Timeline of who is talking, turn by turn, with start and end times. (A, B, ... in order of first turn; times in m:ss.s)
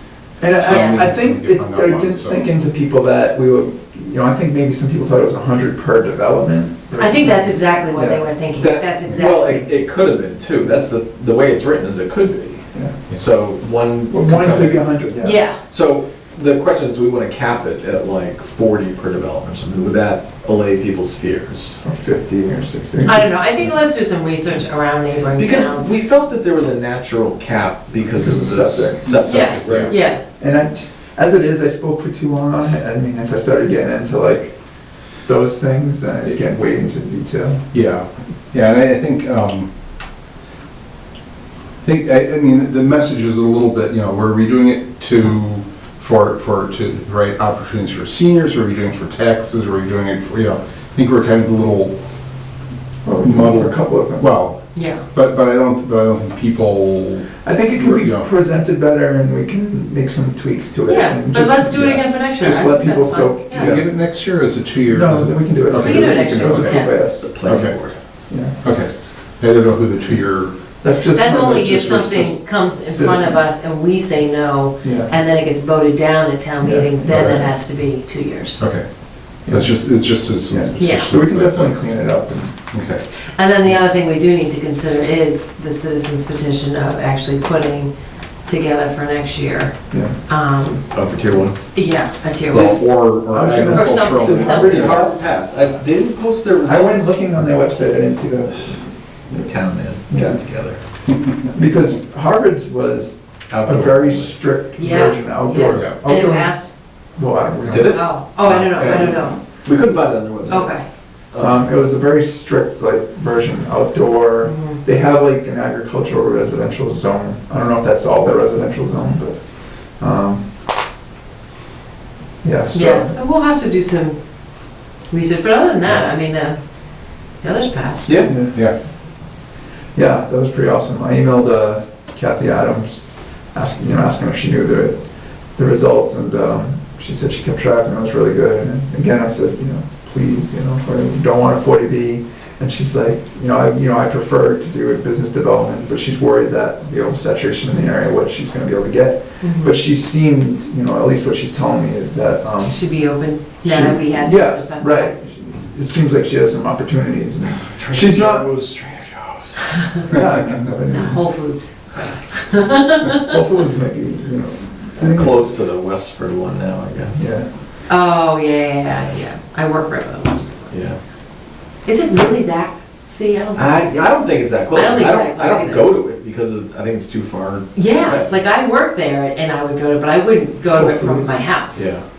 0:00.4-0:08.2 A
0:00.5-0:01.1 B
0:00.6-0:02.4 C
0:07.0-0:09.7 B
0:08.6-0:15.0 D
0:14.1-0:15.4 A
0:15.2-0:15.6 B
0:15.6-0:21.8 D
0:21.8-0:23.8 A
0:23.0-0:25.9 B
0:25.4-0:30.0 D
0:28.2-0:29.1 A
0:29.0-0:29.9 C
0:29.2-0:30.2 B
0:30.4-0:34.6 A
0:35.2-0:37.6 A
0:37.7-0:39.7 C
0:41.8-0:52.0 C
0:53.0-0:54.4 A
0:53.2-0:58.3 C
0:54.8-0:55.0 B
0:57.4-1:03.8 A
1:00.9-1:03.7 B
1:03.5-1:06.9 C
1:04.8-1:07.3 A
1:05.7-1:07.0 B
1:07.1-1:08.0 D
1:07.4-1:07.8 C
1:08.3-1:08.6 A
1:08.6-1:10.6 C
1:10.8-1:13.5 A
1:11.0-1:18.6 B
1:14.8-1:15.1 A
1:16.6-1:17.5 A
1:18.6-1:18.8 C
1:19.5-1:19.8 A
1:19.5-1:21.8 C
1:20.5-1:22.6 A
1:20.8-1:21.1 B
1:22.7-1:23.0 C
1:23.4-1:27.9 B
1:28.4-1:31.0 B
1:29.9-1:30.2 A
1:30.9-1:31.6 D
1:31.7-1:32.8 B
1:32.5-1:35.0 C
1:33.3-1:35.3 A
1:33.7-1:35.2 B
1:34.2-1:37.2 D
1:36.6-1:39.5 A
1:39.3-1:40.8 D
1:40.1-1:40.4 A
1:41.5-1:48.0 A
1:43.5-1:44.4 D
1:44.8-1:46.7 B
1:47.7-1:50.8 D
1:47.9-1:49.4 B
1:48.9-1:49.1 A
1:50.5-1:50.8 B
1:51.3-1:51.6 D
1:51.4-2:00.5 A
1:54.4-1:54.8 B
2:02.4-2:03.2 A
2:02.7-2:08.3 B
2:08.1-2:08.3 D
2:08.2-2:08.6 A
2:09.9-2:32.9 A
2:29.4-2:29.8 B
2:32.6-2:35.2 B
2:33.6-2:38.5 A
2:37.5-2:40.1 D
2:40.1-2:41.2 A
2:40.9-2:43.3 B
2:43.2-2:45.6 A
2:45.0-2:47.3 D
2:47.1-2:47.5 A
2:47.9-2:50.9 B
2:50.7-2:51.0 D
2:51.8-2:53.9 B
2:53.6-2:58.3 D
2:54.7-2:55.9 B
2:57.8-3:01.9 B
3:00.7-3:01.4 A
3:01.8-3:02.0 D